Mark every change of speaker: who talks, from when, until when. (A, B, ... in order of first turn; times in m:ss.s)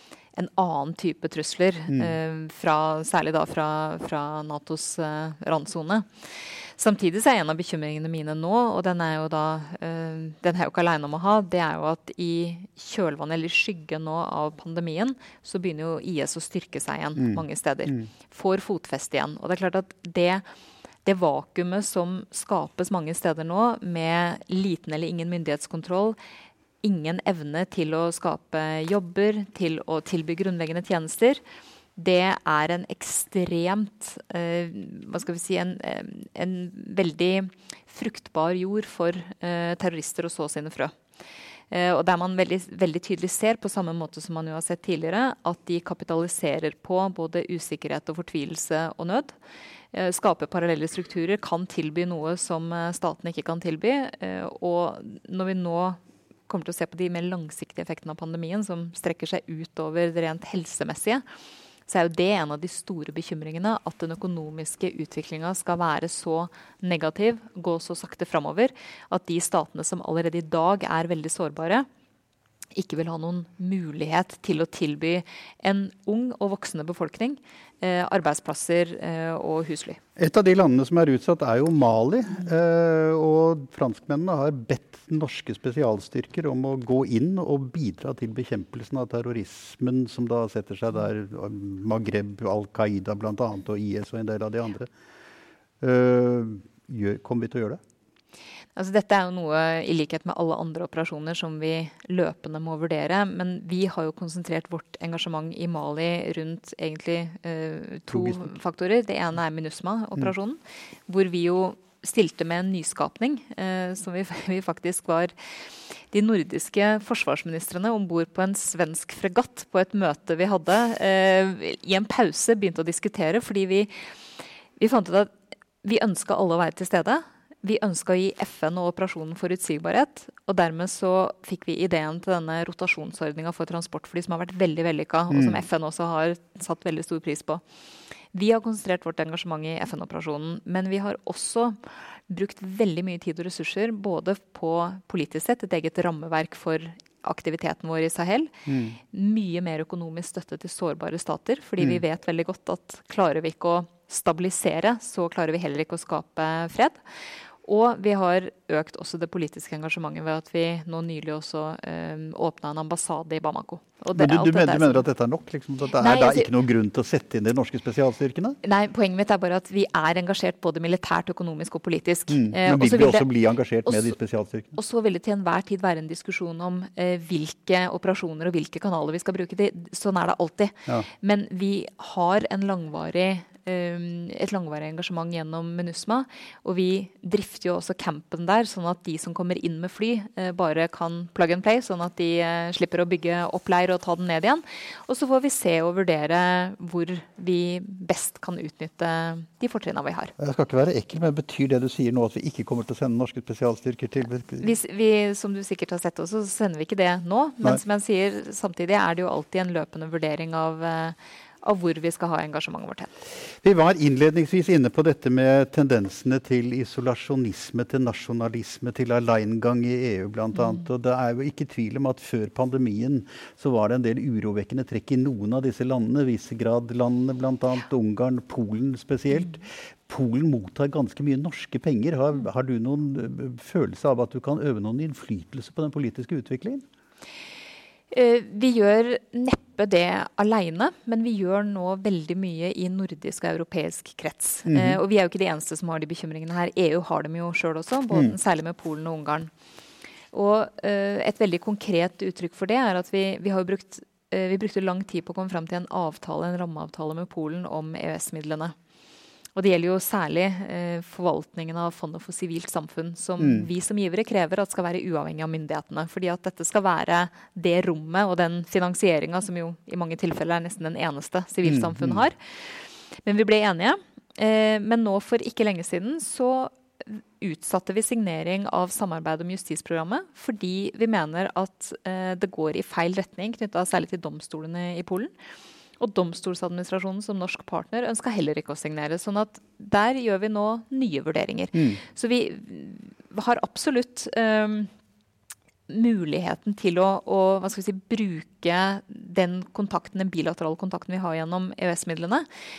0:00.4-0:20.4 A
0:17.2-0:18.1 B
0:21.0-0:26.2 A
0:26.8-0:31.4 A
0:32.0-0:40.9 A
0:41.7-0:49.3 A
0:49.9-1:01.2 A
1:01.9-1:11.9 A
1:12.8-1:20.0 A
1:20.2-1:34.9 B
1:35.8-1:37.8 B
1:38.8-1:55.3 A
1:48.1-1:48.5 B
1:56.1-2:03.9 A
2:04.8-2:17.6 A
2:15.3-2:15.6 B
2:18.3-2:37.0 A
2:28.7-2:29.0 B
2:37.6-2:45.0 A
2:44.2-2:48.6 B
2:46.0-2:46.5 A
2:48.6-2:53.3 A
2:52.3-2:54.8 B
2:53.9-2:54.1 A
2:54.8-3:20.3 A
3:20.4-3:24.7 B
3:24.6-3:33.1 A
3:33.6-3:56.8 B
3:58.1-4:09.5 A
4:04.7-4:05.0 B
4:10.3-4:18.8 A
4:19.6-4:45.3 A
4:23.4-4:23.7 B
4:31.7-4:32.2 B
4:46.0-4:54.9 A
4:51.8-4:52.0 B
4:55.9-5:02.5 A